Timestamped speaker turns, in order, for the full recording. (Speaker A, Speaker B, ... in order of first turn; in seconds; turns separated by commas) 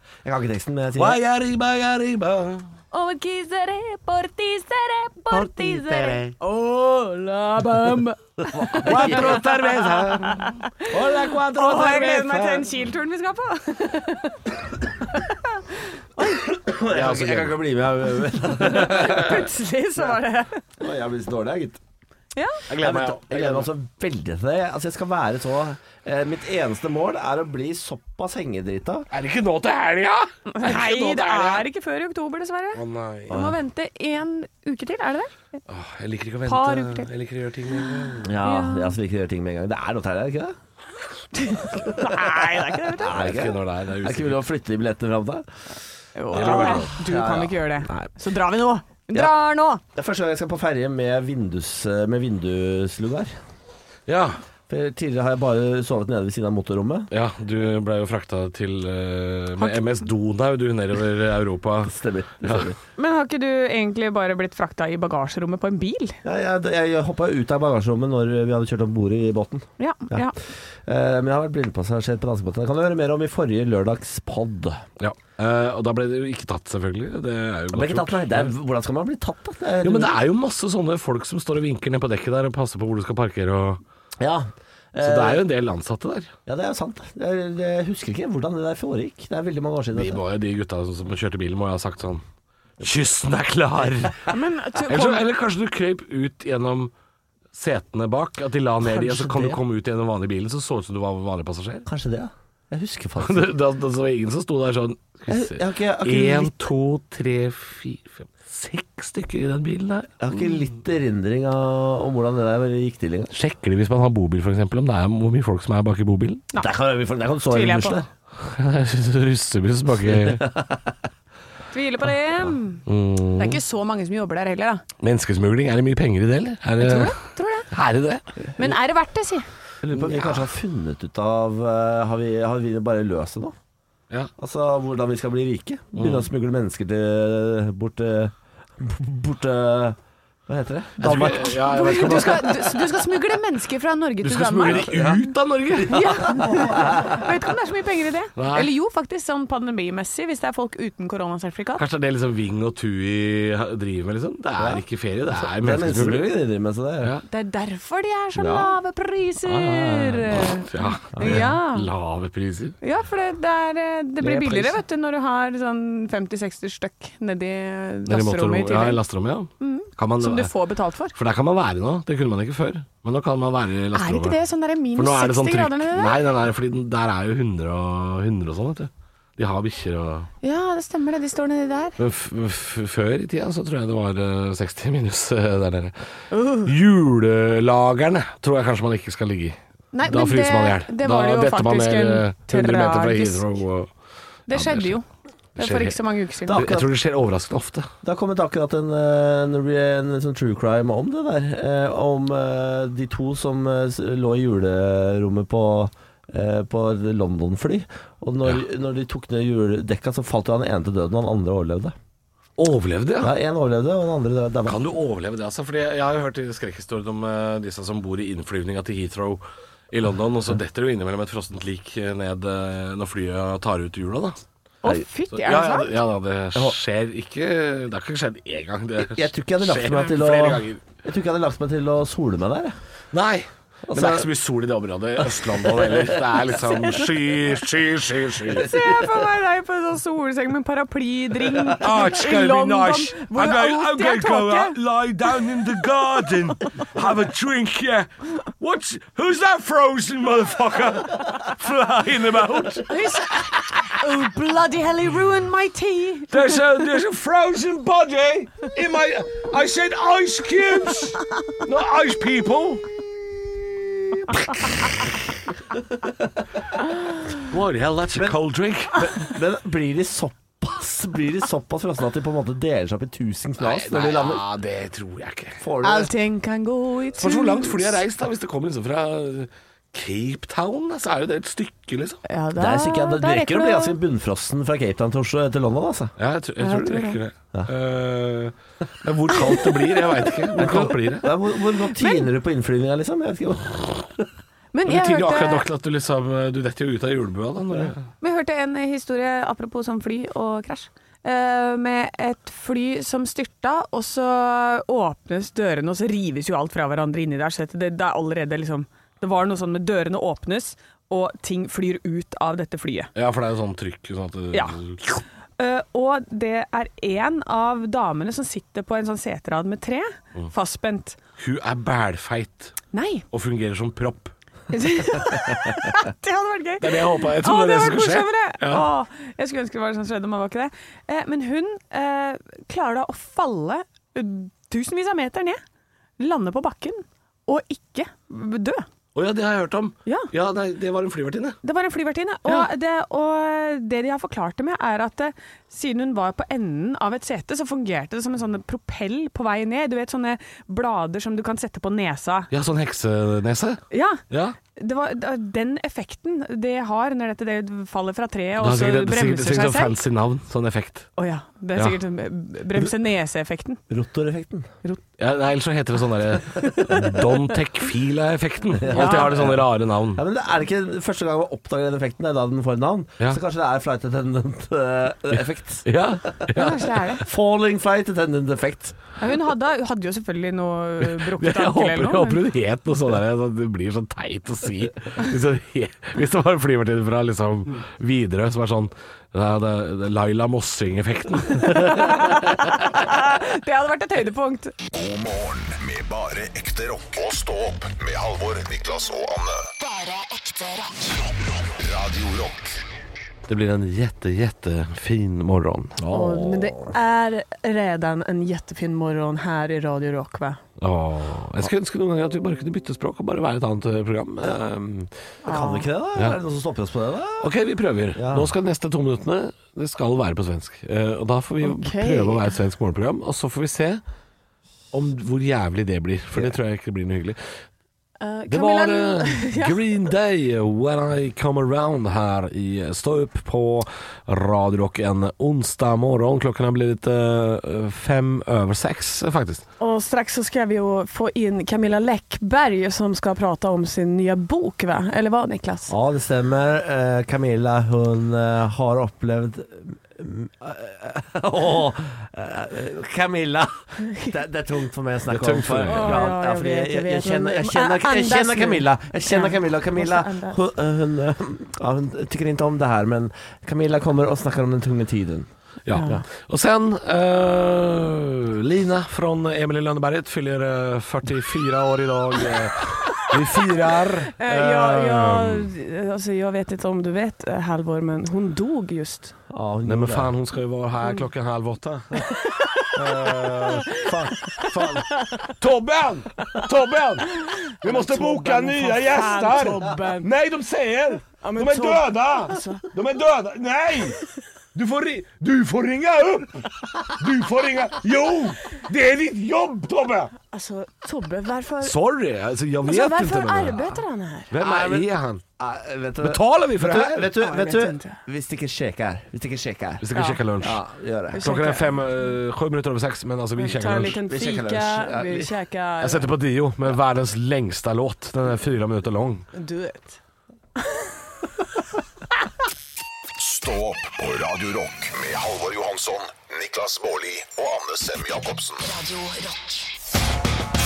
Speaker A: 0.2-1.2, Speaker B: 1.0-2.7, Speaker C: 2.9-9.6, Speaker B: 5.3-6.3, Speaker A: 8.5-10.2, Speaker B: 8.7-12.4, Speaker C: 10.2-14.4, Speaker A: 10.9-12.6, Speaker C: 15.1-16.4, Speaker A: 16.4-19.4, Speaker B: 16.9-17.6, Speaker C: 18.6-20.6, Speaker B: 18.9-19.4, Speaker A: 20.8-21.8, Speaker C: 22.3-22.6, Speaker B: 22.7-23.7, Speaker A: 22.7-29.1, Speaker B: 29.1-31.6, Speaker C: 30.5-35.3, Speaker B: 32.7-33.4, Speaker A: 33.3-33.6, Speaker B: 35.7-38.3, Speaker C: 36.4-37.1, Speaker C: 37.8-39.0, Speaker A: 38.2-40.5, Speaker C: 41.3-43.1, Speaker A: 41.9-45.4, Speaker B: 43.1-44.4, Speaker C: 46.1-49.8, Speaker B: 46.3-46.9, Speaker A: 46.3-48.1, Speaker A: 49.9-53.3, Speaker B: 54.1-54.4, Speaker A: 54.7-57.1, Speaker B: 57.1-62.7, Speaker A: 61.8-62.8, Speaker C: 63.0-66.2, Speaker A: 66.2-70.3, Speaker C: 69.8-70.3, Speaker A: 70.8-74.8, Speaker B: 75.0-78.5, Speaker A: 77.7-80.1, Speaker B: 79.8-83.8, Speaker A: 84.2-85.4, Speaker B: 85.0-86.3, Speaker A: 86.5-90.2, Speaker B: 89.9-92.2, Speaker B: 92.8-94.3, Speaker C: 94.3-95.2, Speaker B: 94.9-96.9, Speaker B: 97.5-101.8, Speaker A: 98.8-99.6, Speaker A: 101.8-103.5, Speaker B: 103.2-110.2, Speaker A: 105.3-106.7, Speaker A: 110.2-113.3, Speaker B: 113.3-116.4, Speaker A: 116.5-118.1, Speaker C: 117.5-118.0, Speaker B: 118.4-120.5, Speaker A: 120.1-120.9, Speaker C: 121.7-122.8, Speaker B: 122.8-123.6, Speaker C: 123.4-124.8, Speaker B: 125.0-127.2, Speaker C: 126.8-127.7, Speaker B: 127.7-128.2, Speaker C: 128.6-129.4, Speaker B: 129.8-130.4, Speaker A: 129.8-133.6, Speaker A: 134.4-141.6, Speaker B: 135.9-136.3, Speaker B: 141.0-142.8, Speaker C: 141.5-145.1, Speaker B: 144.2-146.1, Speaker A: 144.7-145.2, Speaker A: 145.7-147.2, Speaker C: 145.8-151.8, Speaker B: 148.3-148.7, Speaker B: 151.8-156.3, Speaker A: 154.6-157.2, Speaker C: 157.3-161.9, Speaker A: 158.3-158.7, Speaker B: 159.4-162.8, Speaker A: 161.1-161.5, Speaker C: 162.8-169.0, Speaker A: 164.2-164.8, Speaker B: 168.1-170.5, Speaker C: 169.6-171.1, Speaker B: 171.1-174.4, Speaker C: 173.9-176.2, Speaker B: 174.9-180.3, Speaker C: 180.4-181.9, Speaker B: 182.0-185.9, Speaker C: 186.3-186.7, Speaker B: 186.6-193.9, Speaker C: 189.9-193.4, Speaker C: 194.5-195.0, Speaker B: 194.5-194.9, Speaker C: 195.6-196.6, Speaker B: 195.6-197.9, Speaker A: 196.5-196.9, Speaker A: 198.0-211.9, Speaker B: 212.6-213.3, Speaker A: 213.2-214.8, Speaker B: 214.6-224.4, Speaker C: 224.8-225.9, Speaker B: 225.3-230.8, Speaker A: 229.0-232.8, Speaker B: 233.1-238.7, Speaker A: 233.8-234.3, Speaker A: 235.4-236.3, Speaker A: 238.5-239.1, Speaker C: 238.6-244.8, Speaker B: 241.8-253.8, Speaker C: 252.9-256.6, Speaker B: 256.3-262.9, Speaker B: 264.3-264.8, Speaker B: 267.4-269.0, Speaker A: 268.9-274.4, Speaker B: 273.6-275.6, Speaker A: 275.6-276.1, Speaker C: 275.8-278.0, Speaker B: 277.2-282.2, Speaker C: 282.2-284.0, Speaker A: 282.6-286.1, Speaker B: 286.2-291.3, Speaker C: 286.6-287.2, Speaker A: 290.6-294.3, Speaker C: 292.0-292.2, Speaker C: 294.7-295.6, Speaker B: 294.9-298.1, Speaker C: 298.2-313.1, Speaker B: 313.1-315.0, Speaker C: 314.5-321.2, Speaker B: 321.4-322.8, Speaker C: 322.9-323.2, Speaker B: 323.3-324.3, Speaker C: 324.7-335.6, Speaker B: 326.8-328.9, Speaker C: 336.2-338.9, Speaker B: 339.1-341.6, Speaker C: 341.6-352.5, Speaker B: 352.5-354.6, Speaker C: 353.9-354.2, Speaker C: 354.8-359.9, Speaker B: 358.6-361.1, Speaker C: 361.2-363.8, Speaker A: 363.9-364.7, Speaker B: 365.2-370.2, Speaker C: 366.5-367.3, Speaker A: 368.8-375.9, Speaker C: 368.9-369.3, Speaker B: 375.3-377.1, Speaker C: 376.5-377.2, Speaker A: 377.2-379.0, Speaker C: 379.2-382.4, Speaker B: 381.0-392.8, Speaker C: 391.6-394.7, Speaker D: 394.9-399.7, Speaker E: 399.8-401.2, Speaker D: 401.6-402.8, Speaker B: 403.5-406.7, Speaker A: 405.7-406.1, Speaker C: 406.1-410.6, Speaker B: 410.8-415.1, Speaker C: 415.4-415.9, Speaker A: 415.4-417.5, Speaker B: 417.4-424.0, Speaker A: 418.1-418.5, Speaker C: 421.6-422.5, Speaker B: 424.9-427.4, Speaker C: 428.2-429.8, Speaker B: 428.5-439.6, Speaker C: 439.8-445.9, Speaker A: 445.9-465.5, Speaker B: 455.3-456.2, Speaker C: 455.9-460.6, Speaker B: 465.9-475.7, Speaker C: 465.9-466.2, Speaker C: 474.4-479.3, Speaker A: 479.5-480.3, Speaker B: 479.8-494.2, Speaker C: 482.4-482.9, Speaker C: 483.5-484.7, Speaker C: 487.8-490.3, Speaker C: 491.4-492.9, Speaker B: 494.7-500.3, Speaker C: 500.5-501.9, Speaker B: 501.8-504.0, Speaker C: 502.8-504.5, Speaker B: 504.5-505.4, Speaker A: 504.6-510.1, Speaker B: 506.2-507.3, Speaker C: 507.4-508.2, Speaker B: 510.0-510.8, Speaker A: 510.6-511.4, Speaker C: 511.3-511.8, Speaker B: 511.4-514.2, Speaker C: 513.5-516.3, Speaker A: 514.2-515.5, Speaker B: 516.0-519.5, Speaker C: 519.5-520.2, Speaker D: 523.4-528.9, Speaker E: 528.8-529.9